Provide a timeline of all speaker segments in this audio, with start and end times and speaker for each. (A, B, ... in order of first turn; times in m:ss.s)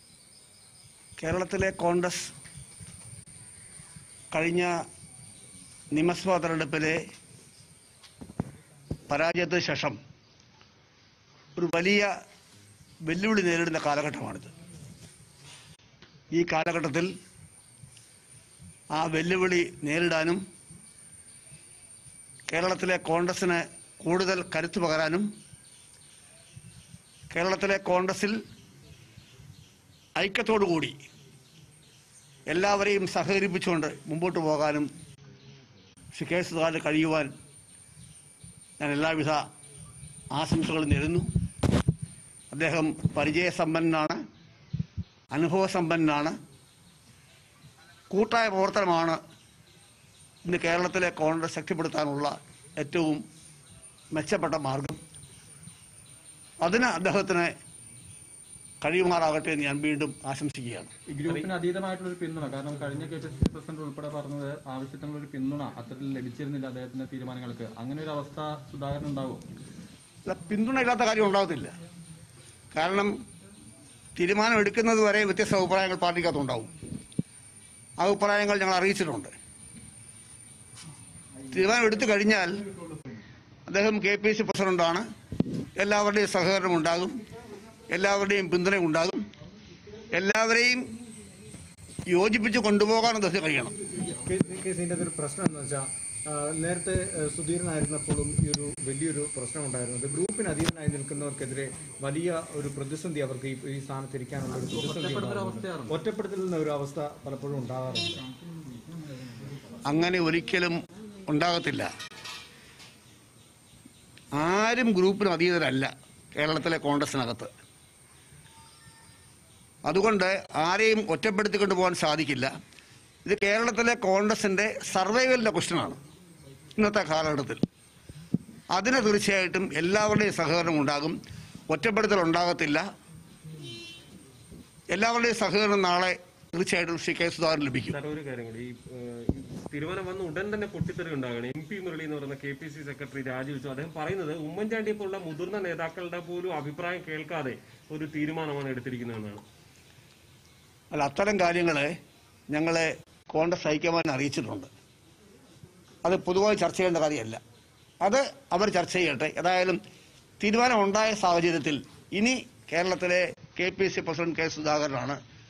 0:01.2-0:02.3 A
0:04.3-0:04.7 A
0:05.9-0:07.0 A
0:09.1-0:10.0 A
0:11.6-0:12.1 A
0:13.0-0:14.5 A
0:16.3-0:17.1 A
0:18.9-0:20.4 A
0:22.5-0:25.3 A
0:27.3-0:28.4 A
0:30.2-0:31.0 A
0:32.5-0:34.9 A
0:36.1-0:37.3 A
0:38.8-0:39.4 A
0:40.3-0:41.3 A
0:42.5-0:44.2 A
0:45.3-0:46.3 A
0:48.1-0:49.2 A
0:50.5-0:53.2 A
0:54.1-0:55.0 A
0:56.6-0:57.5 A
0:58.8-1:00.9 A
1:01.1-1:09.4 B
1:10.2-1:11.7 A
1:12.7-1:13.2 A
1:14.2-1:16.7 A
1:18.0-1:19.3 A
1:21.5-1:22.6 A
1:22.9-1:23.2 B
1:23.7-1:25.0 A
1:25.8-1:27.2 A
1:27.9-1:29.2 A
1:30.1-1:30.8 A
1:32.1-1:33.8 A
1:34.2-1:48.2 C
1:44.6-1:46.0 B
1:48.2-1:49.8 B
1:49.9-1:51.9 A
1:54.3-1:57.5 A
1:59.9-2:02.5 A
2:03.2-2:06.0 A
2:06.8-2:07.6 A
2:08.7-2:11.2 A
2:11.7-2:12.8 A
2:14.9-2:18.0 A
2:17.9-2:29.4 D
2:30.9-2:31.9 A
2:32.5-2:34.7 A
2:36.0-2:37.4 A
2:38.0-2:39.8 A
2:40.4-2:45.2 A